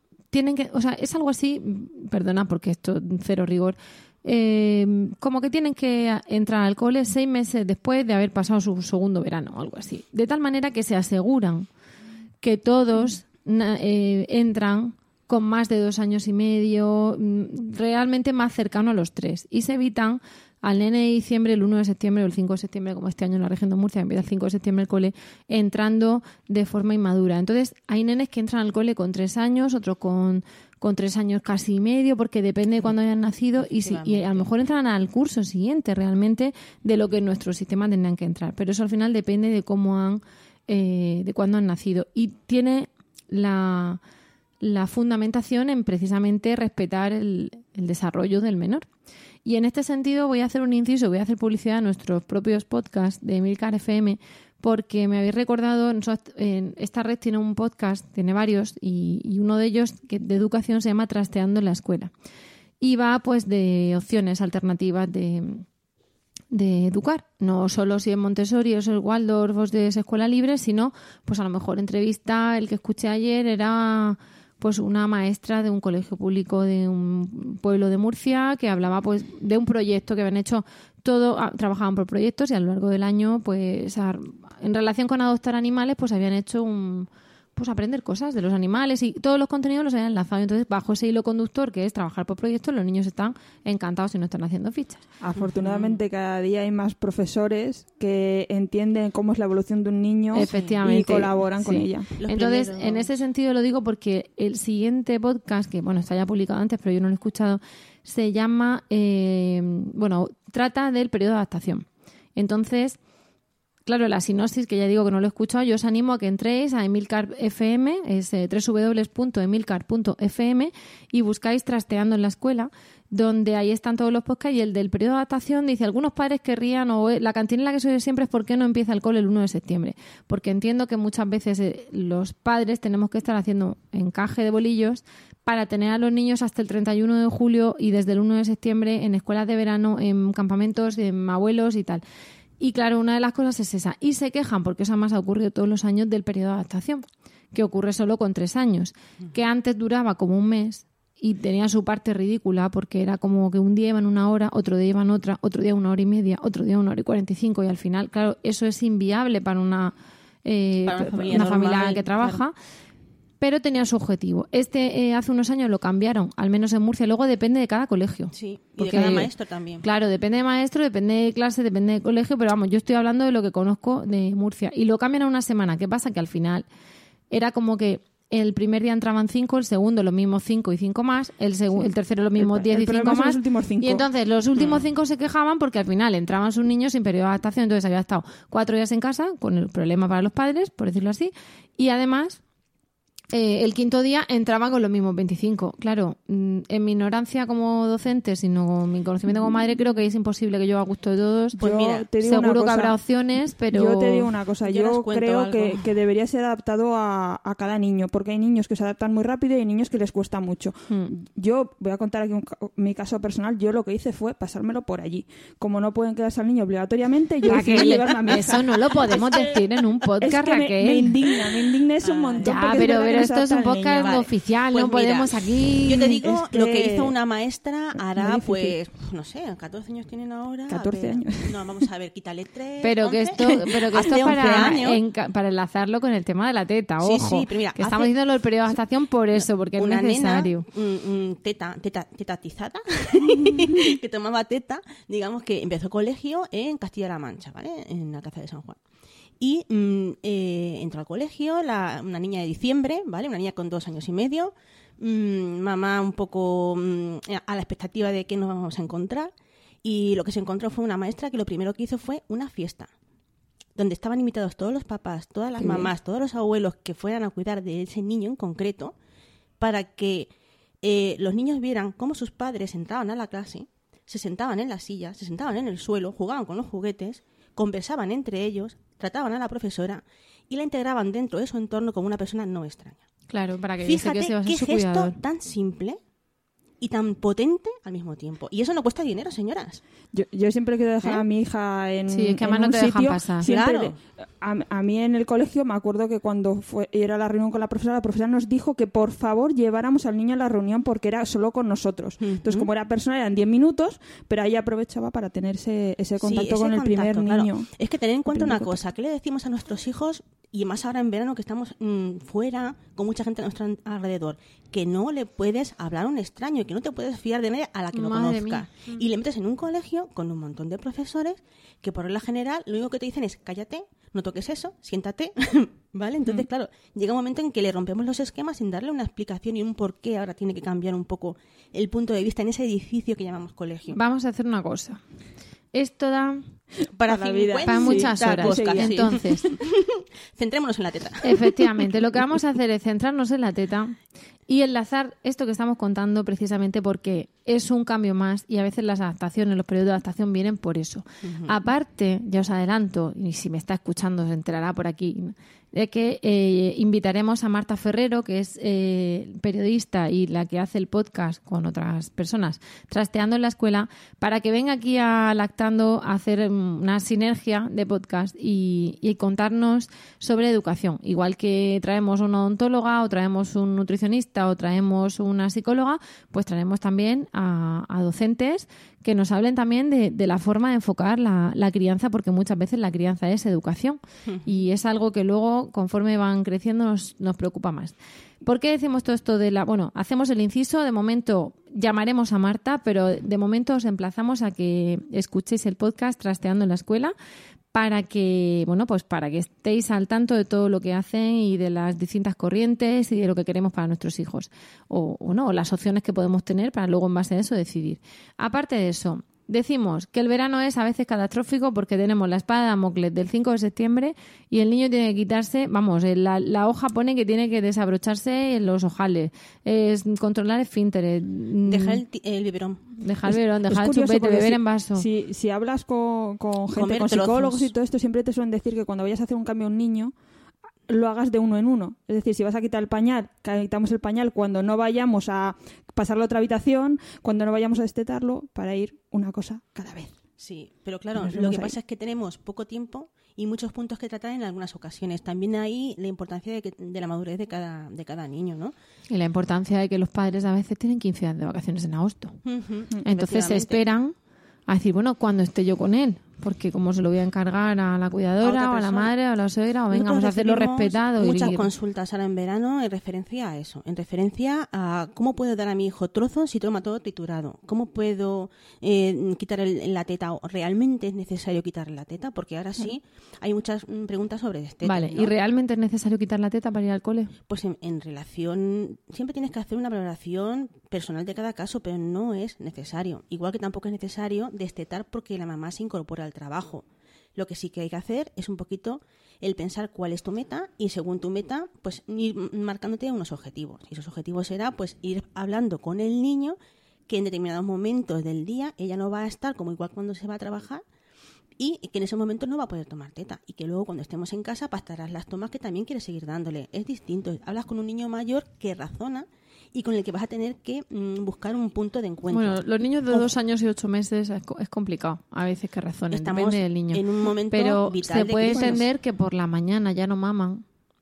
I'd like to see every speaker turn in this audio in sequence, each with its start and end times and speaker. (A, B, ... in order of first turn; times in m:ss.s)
0:00.3-0:11.7 A
0:12.4-0:44.0 A
0:33.6-0:34.5 B
0:44.6-0:48.9 A
0:49.4-1:02.1 A
1:02.8-1:05.6 A
1:06.5-1:35.0 A
1:35.2-1:42.1 C
1:35.4-1:36.0 B
1:40.3-1:53.0 A
1:40.4-1:40.8 B
1:42.2-1:43.1 B
1:53.9-2:22.0 A
2:22.6-2:39.9 A
2:40.4-2:42.5 A
2:40.8-2:42.4 B
2:43.4-2:49.3 A
2:48.3-2:49.8 B
2:49.8-2:56.6 A
2:57.3-3:12.4 A
3:01.8-3:04.0 C
3:04.6-3:04.8 B
3:13.3-3:21.6 A
3:21.6-3:23.0 C
3:21.6-3:22.1 B
3:22.2-3:24.3 A
3:23.7-3:39.6 C
3:24.6-3:25.9 B
3:37.4-3:41.1 A
3:39.3-3:39.6 B
3:40.2-3:44.3 C
3:42.0-3:42.9 B
3:42.4-3:46.2 A
3:44.0-3:55.0 B
3:45.9-3:47.2 C
3:48.1-3:48.8 C
3:50.7-3:51.8 C
3:52.8-4:00.6 A
3:57.0-3:58.1 B
3:59.4-4:08.8 B
4:09.4-4:19.3 B
4:19.8-4:22.9 B
4:23.8-4:28.9 B
4:29.6-4:30.3 B
4:30.8-4:43.0 B
4:43.3-4:45.2 A
4:43.8-4:46.0 B
4:46.8-4:49.8 B
4:50.1-5:07.7 C
4:52.1-4:53.5 A
4:53.4-4:54.0 B
5:02.2-5:02.7 B
5:06.2-5:34.0 B
5:08.3-5:08.8 C
5:17.9-5:18.7 A
5:33.9-5:35.0 A
5:35.7-5:36.4 A
5:37.0-5:41.8 B
5:37.0-5:39.5 C
5:37.6-5:39.5 A
5:41.2-5:44.0 A
5:44.5-6:37.1 A
5:51.2-5:51.5 B
6:24.3-6:24.5 B
6:37.7-7:02.0 A
7:01.6-7:02.8 B
7:03.0-7:05.1 A
7:03.3-7:10.1 C
7:06.7-7:07.7 B
7:10.9-7:20.2 C
7:20.4-7:28.7 B
7:21.1-7:21.8 C
7:29.1-7:32.4 A
7:32.4-7:33.9 B
7:33.1-7:34.1 A
7:34.7-7:41.7 A
7:38.4-7:39.1 B
7:39.9-7:55.3 B
7:54.8-7:57.3 A
7:57.5-8:06.8 B
8:07.4-8:16.6 B
8:17.1-8:20.8 B
8:21.6-8:33.3 B
8:32.3-8:40.6 A
8:36.1-8:38.8 B
8:38.5-8:38.8 C